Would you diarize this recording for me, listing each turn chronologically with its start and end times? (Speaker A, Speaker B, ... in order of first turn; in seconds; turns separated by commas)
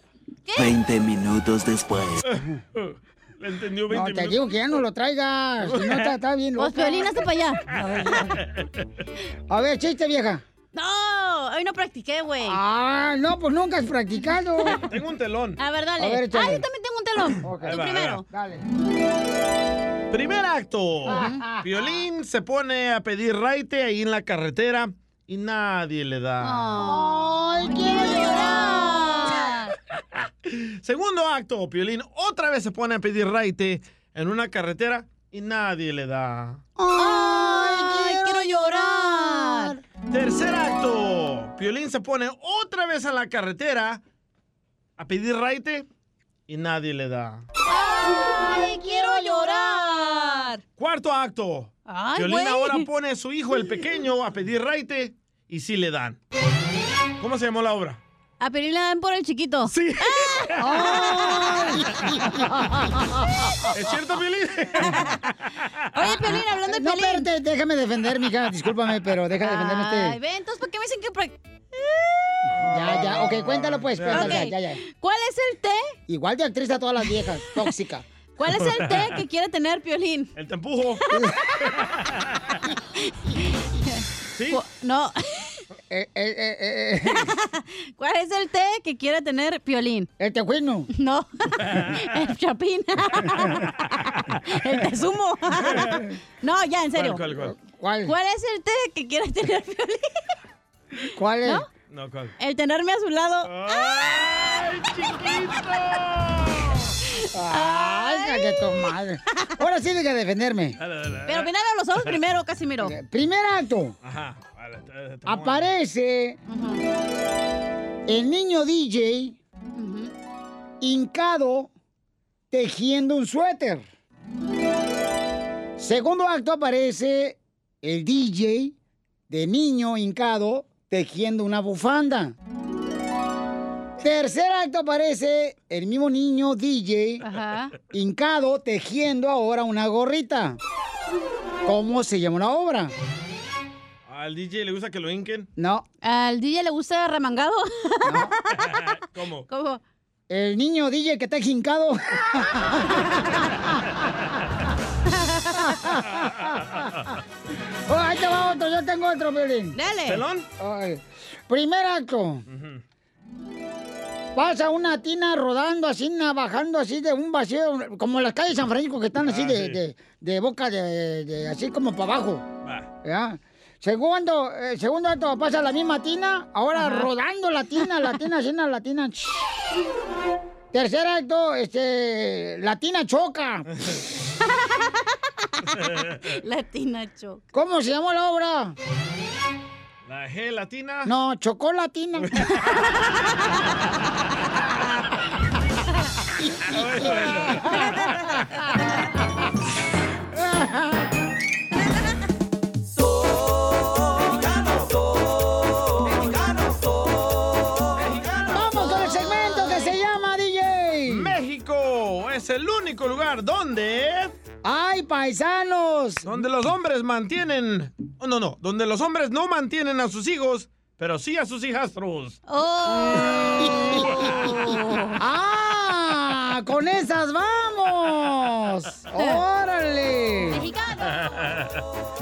Speaker A: 0.5-0.8, Speaker B: 2.3-4.6, Speaker C: 3.9-7.1, Speaker B: 5.6-6.1, Speaker A: 6.6-7.6, Speaker C: 7.7-8.3, Speaker B: 8.2-8.7, Speaker C: 9.5-10.4, Speaker A: 10.7-12.6, Speaker C: 12.4-14.8, Speaker B: 14.8-15.6, Speaker A: 15.6-18.2, Speaker C: 16.0-16.6, Speaker C: 17.4-18.6, Speaker B: 17.6-18.2, Speaker B: 20.1-26.7, Speaker C: 21.1-21.7, Speaker A: 21.1-21.4, Speaker A: 26.4-29.7, Speaker C: 26.8-29.3, Speaker B: 30.5-36.6, Speaker C: 36.8-39.8, Speaker A: 37.0-39.7, Speaker B: 40.1-44.0, Speaker B: 45.0-45.9, Speaker B: 46.5-47.5, Speaker A: 47.7-50.6, Speaker C: 48.2-49.9, Speaker B: 50.8-56.2, Speaker A: 51.9-52.8, Speaker B: 57.2-58.0, Speaker A: 58.4-60.5, Speaker B: 59.7-60.5, Speaker C: 60.6-63.5, Speaker B: 63.7-65.0, Speaker A: 64.9-65.2, Speaker A: 65.9-67.3, Speaker C: 66.0-70.2, Speaker A: 69.4-72.4, Speaker B: 72.5-74.5, Speaker C: 72.7-74.8, Speaker A: 74.1-76.0, Speaker C: 76.1-78.0, Speaker A: 78.4-80.3, Speaker B: 80.3-81.0, Speaker B: 81.7-82.4, Speaker A: 83.0-85.6, Speaker B: 84.3-84.6, Speaker C: 85.9-87.3, Speaker A: 87.1-90.1, Speaker C: 90.2-90.9, Speaker A: 90.9-97.3, Speaker B: 91.6-91.9, Speaker B: 95.7-96.0, Speaker B: 97.0-97.5, Speaker C: 97.4-98.1, Speaker A: 98.0-100.1, Speaker C: 101.2-101.6, Speaker B: 101.9-102.3, Speaker A: 102.4-104.2, Speaker B: 103.4-106.9, Speaker C: 107.3-110.8, Speaker A: 107.5-108.9, Speaker B: 110.8-111.5, Speaker A: 111.2-112.9, Speaker C: 112.8-113.9, Speaker B: 114.0-115.7, Speaker C: 115.2-116.4, Speaker A: 116.5-116.8, Speaker C: 118.1-119.4, Speaker A: 119.7-120.1, Speaker C: 120.8-121.7, Speaker C: 122.5-123.8, Speaker C: 125.8-128.7, Speaker C: 129.3-132.3, Speaker C: 134.0-137.2, Speaker A: 137.2-137.7, Speaker C: 137.9-140.6, Speaker C: 141.7-142.9, Speaker B: 144.1-145.5, Speaker C: 145.6-145.9, Speaker A: 146.0-148.8, Speaker C: 148.0-148.3, Speaker B: 148.7-149.4, Speaker A: 149.5-149.8, Speaker C: 150.3-153.7, Speaker A: 155.2-155.8, Speaker C: 155.7-156.4, Speaker B: 156.2-156.9, Speaker C: 157.9-159.8, Speaker A: 159.7-160.2, Speaker B: 160.1-160.4, Speaker C: 160.6-162.4, Speaker B: 162.5-162.8, Speaker C: 164.3-172.4, Speaker B: 169.2-169.8, Speaker C: 173.0-179.7, Speaker A: 176.8-177.1, Speaker C: 180.7-183.7, Speaker B: 185.7-186.2, Speaker A: 186.2-187.4, Speaker C: 187.5-188.7, Speaker B: 190.0-191.1, Speaker C: 191.0-192.3, Speaker B: 192.2-192.8, Speaker B: 196.7-198.2, Speaker C: 197.2-197.9, Speaker C: 200.3-201.1, Speaker B: 207.9-208.6, Speaker C: 208.5-211.4, Speaker A: 208.7-209.9, Speaker B: 211.1-214.3, Speaker C: 214.6-216.4, Speaker B: 216.2-222.4, Speaker A: 222.5-225.2, Speaker C: 225.2-230.7, Speaker A: 229.1-229.4, Speaker A: 230.5-231.5, Speaker B: 231.2-231.8